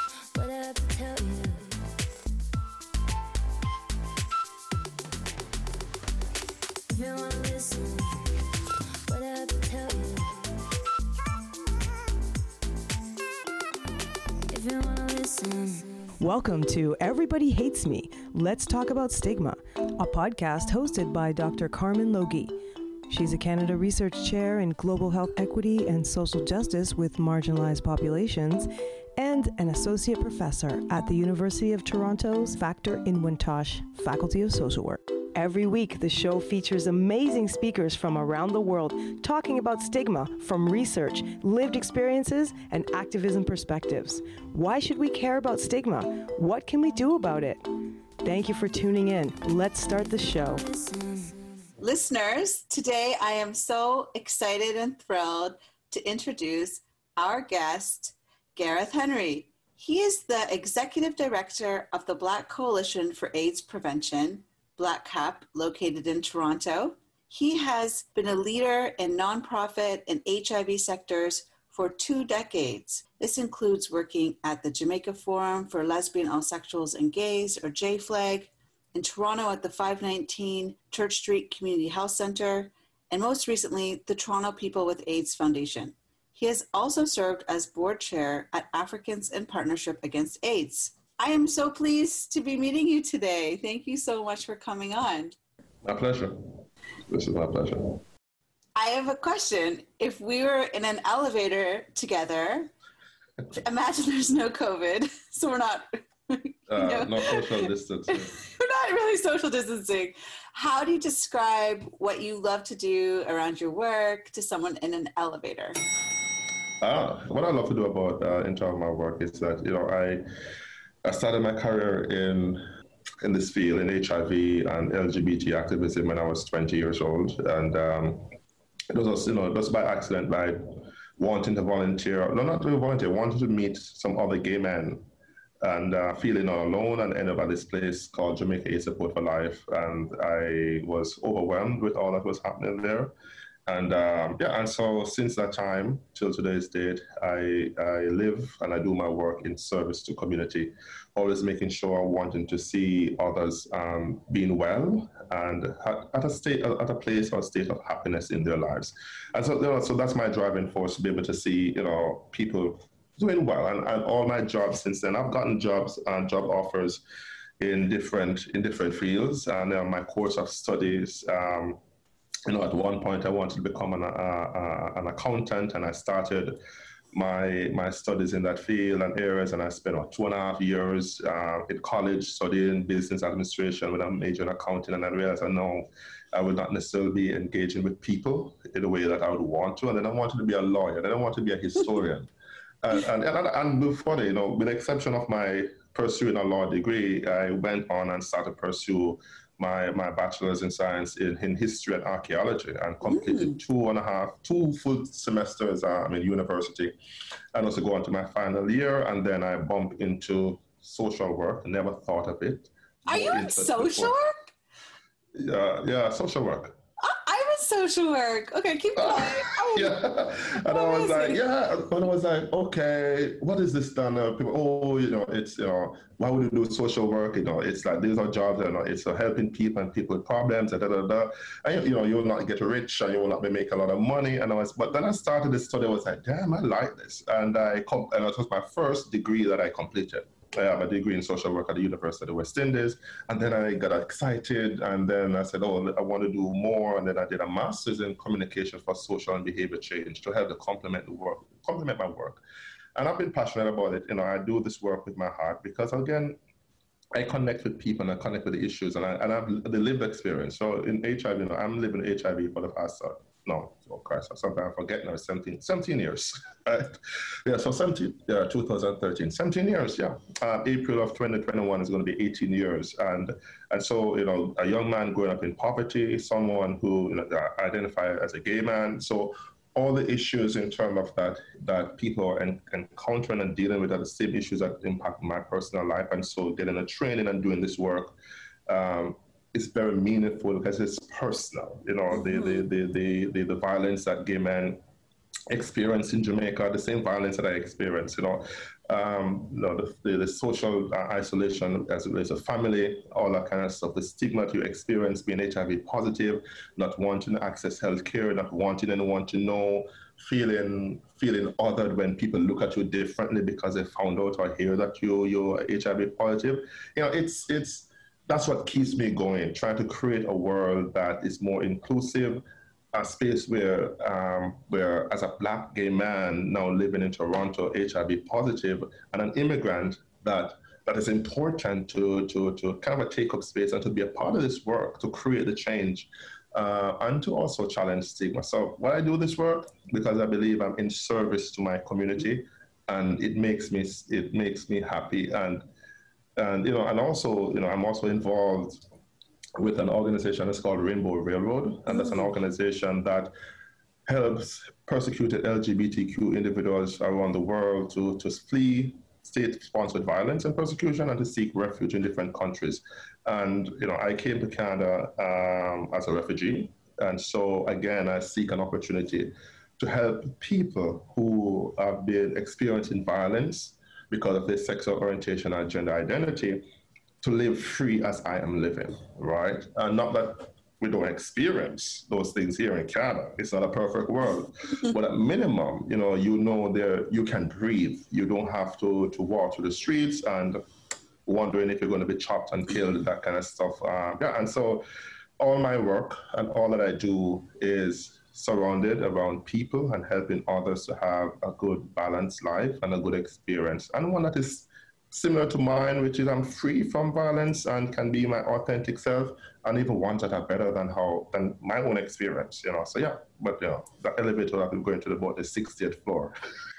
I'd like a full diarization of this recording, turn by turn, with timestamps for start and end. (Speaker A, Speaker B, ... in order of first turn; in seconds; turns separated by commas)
Speaker A: 0.3-1.8, Speaker A: 6.9-8.4, Speaker A: 9.1-10.6, Speaker A: 14.5-16.0, Speaker B: 16.2-22.5, Speaker B: 23.1-47.6, Speaker B: 48.2-50.6, Speaker A: 50.5-51.4, Speaker C: 51.8-95.3, Speaker D: 95.8-98.0, Speaker C: 98.8-102.7, Speaker C: 103.6-107.6, Speaker D: 106.7-108.3, Speaker C: 108.1-115.8, Speaker D: 116.8-120.2, Speaker D: 121.0-122.6, Speaker D: 123.2-128.3, Speaker D: 128.9-135.1, Speaker D: 135.6-143.1, Speaker D: 143.7-167.0, Speaker D: 167.6-171.8, Speaker D: 172.5-176.6, Speaker D: 177.1-192.3, Speaker D: 192.8-206.9, Speaker C: 203.1-203.6, Speaker D: 207.5-214.2, Speaker C: 213.1-214.4, Speaker D: 215.3-216.8, Speaker C: 217.0-220.0, Speaker D: 219.0-252.4, Speaker C: 220.7-221.4, Speaker D: 253.0-256.4, Speaker D: 257.1-288.2, Speaker D: 288.7-294.8, Speaker C: 292.2-292.6, Speaker D: 295.5-345.6, Speaker D: 346.4-348.8, Speaker D: 349.6-353.3, Speaker C: 351.9-352.3, Speaker D: 354.1-376.7, Speaker D: 377.2-390.6, Speaker D: 391.3-394.9, Speaker D: 395.4-416.4